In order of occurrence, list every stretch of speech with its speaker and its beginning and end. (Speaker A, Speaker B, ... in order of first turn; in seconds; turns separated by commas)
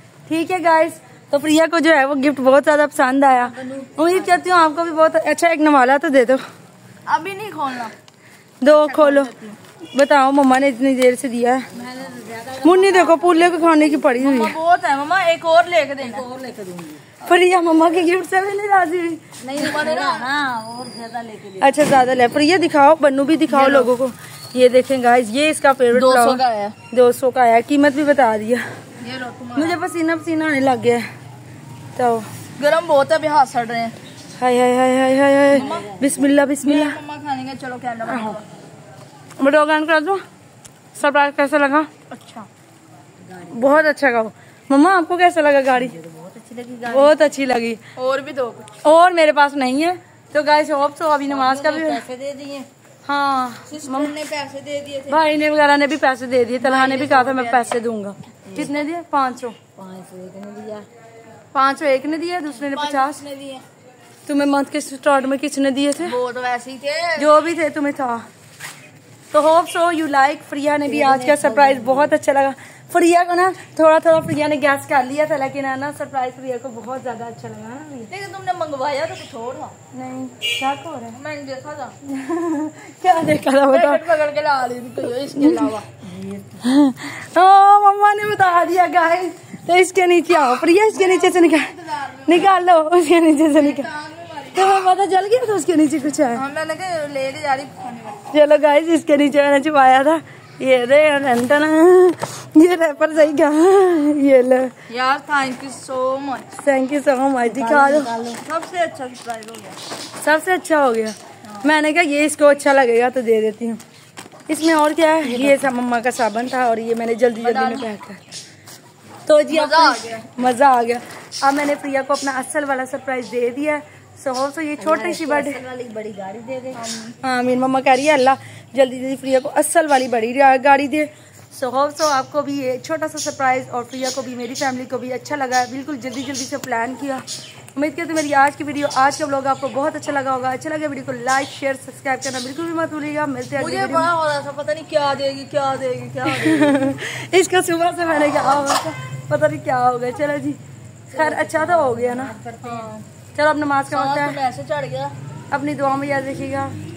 Speaker A: 0.3-6.4, Speaker B: 3.6-4.5, Speaker C: 7.0-7.9, Speaker A: 8.6-9.3, Speaker C: 8.7-9.6, Speaker A: 9.9-11.7, Speaker B: 11.7-14.0, Speaker A: 12.6-14.5, Speaker C: 14.2-16.2, Speaker B: 16.0-17.1, Speaker A: 17.2-19.3, Speaker B: 19.4-21.9, Speaker C: 19.5-20.3, Speaker A: 21.6-28.6, Speaker C: 23.5-23.9, Speaker C: 25.9-26.8, Speaker C: 29.0-29.8, Speaker A: 29.5-31.1, Speaker A: 31.9-32.3, Speaker C: 32.6-34.0, Speaker A: 34.4-37.0, Speaker C: 35.5-36.0, Speaker C: 36.6-38.4, Speaker A: 39.4-40.2, Speaker A: 40.9-41.9, Speaker C: 42.1-42.5, Speaker B: 43.3-43.7, Speaker A: 43.4-46.0, Speaker B: 45.9-47.2, Speaker A: 46.9-47.8, Speaker C: 48.0-48.8, Speaker A: 48.8-52.0, Speaker B: 51.3-52.7, Speaker A: 53.0-54.1, Speaker C: 53.7-55.2, Speaker A: 55.1-59.5, Speaker C: 56.6-57.8, Speaker B: 59.8-60.9, Speaker A: 61.5-63.2, Speaker C: 62.6-63.6, Speaker A: 64.3-66.2, Speaker C: 66.0-67.3, Speaker A: 67.2-68.2, Speaker A: 69.3-78.1, Speaker B: 70.8-72.1, Speaker C: 78.1-79.8, Speaker A: 79.9-81.2, Speaker C: 81.1-82.0, Speaker A: 82.0-84.0, Speaker C: 83.7-85.9, Speaker B: 86.0-86.6, Speaker A: 86.6-91.7, Speaker C: 90.9-92.5, Speaker A: 92.2-93.9, Speaker C: 93.5-94.7, Speaker A: 94.5-96.4, Speaker C: 96.3-98.3, Speaker A: 98.3-104.7, Speaker C: 104.9-106.5, Speaker A: 106.5-108.1, Speaker B: 107.4-108.4, Speaker C: 108.4-109.8, Speaker A: 110.2-113.8, Speaker A: 114.5-118.2, Speaker B: 115.3-115.6, Speaker C: 117.4-117.9, Speaker A: 119.2-125.6, Speaker C: 119.5-120.3, Speaker B: 124.8-126.8, Speaker C: 126.7-127.2, Speaker A: 127.2-137.2, Speaker A: 137.8-144.1, Speaker C: 143.6-146.9, Speaker A: 146.3-150.6, Speaker A: 151.1-152.3, Speaker B: 151.1-153.0, Speaker C: 152.6-153.0, Speaker A: 153.3-154.4, Speaker C: 153.9-155.1, Speaker A: 155.5-156.7